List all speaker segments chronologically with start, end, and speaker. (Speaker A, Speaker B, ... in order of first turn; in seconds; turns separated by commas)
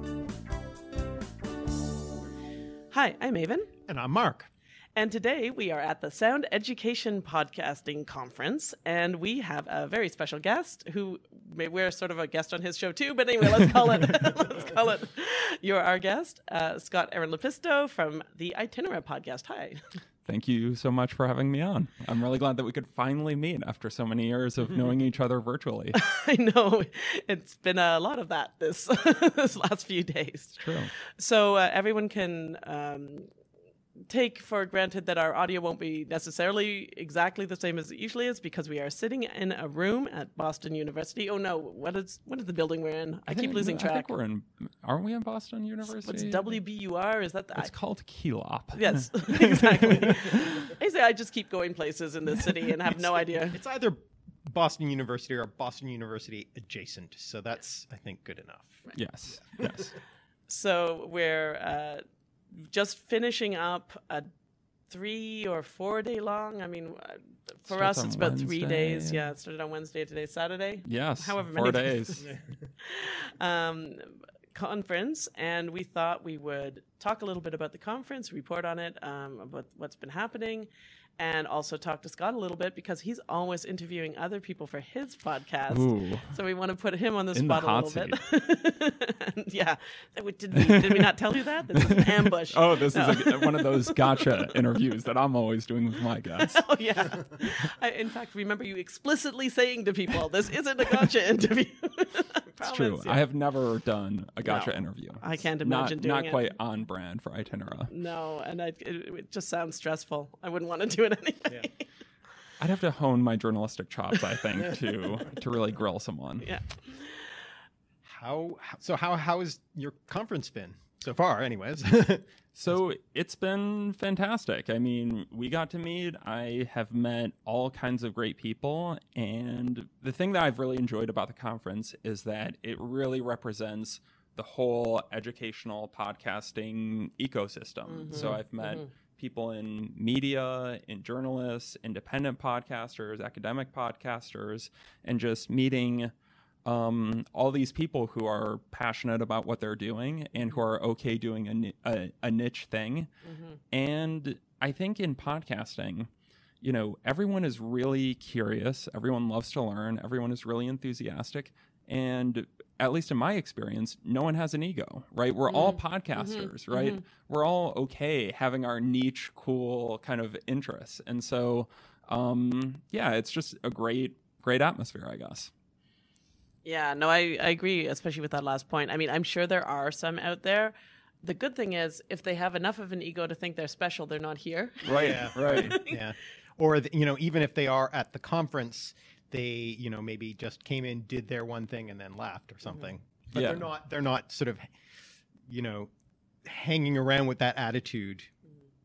Speaker A: 2.9-3.7, Speaker B: 3.9-4.5, Speaker A: 5.0-19.8, Speaker C: 20.2-26.0, Speaker A: 25.9-33.3, Speaker C: 30.6-30.9, Speaker A: 34.1-44.1, Speaker C: 43.3-46.5, Speaker A: 45.9-47.7, Speaker C: 47.6-50.5, Speaker A: 48.8-53.6, Speaker B: 53.5-58.9, Speaker C: 58.9-59.9, Speaker A: 60.5-62.0, Speaker A: 62.5-64.3, Speaker A: 64.9-72.3, Speaker C: 67.7-69.2, Speaker C: 70.8-72.3, Speaker A: 72.8-94.5, Speaker C: 85.7-86.3, Speaker C: 87.3-88.2, Speaker C: 90.5-91.1, Speaker C: 91.7-96.6, Speaker A: 96.4-103.2, Speaker C: 102.6-107.9, Speaker A: 104.4-106.5, Speaker A: 107.9-111.7, Speaker C: 112.6-116.5, Speaker A: 116.4-117.3, Speaker B: 118.0-122.2, Speaker C: 122.5-146.1, Speaker A: 137.9-138.9, Speaker C: 146.6-153.1, Speaker A: 153.2-153.6, Speaker C: 153.7-156.1, Speaker C: 156.6-175.5, Speaker A: 165.5-167.0, Speaker A: 176.6-186.0, Speaker C: 184.8-185.8, Speaker B: 184.9-194.7, Speaker C: 193.3-193.7, Speaker B: 195.5-195.9, Speaker B: 196.4-198.3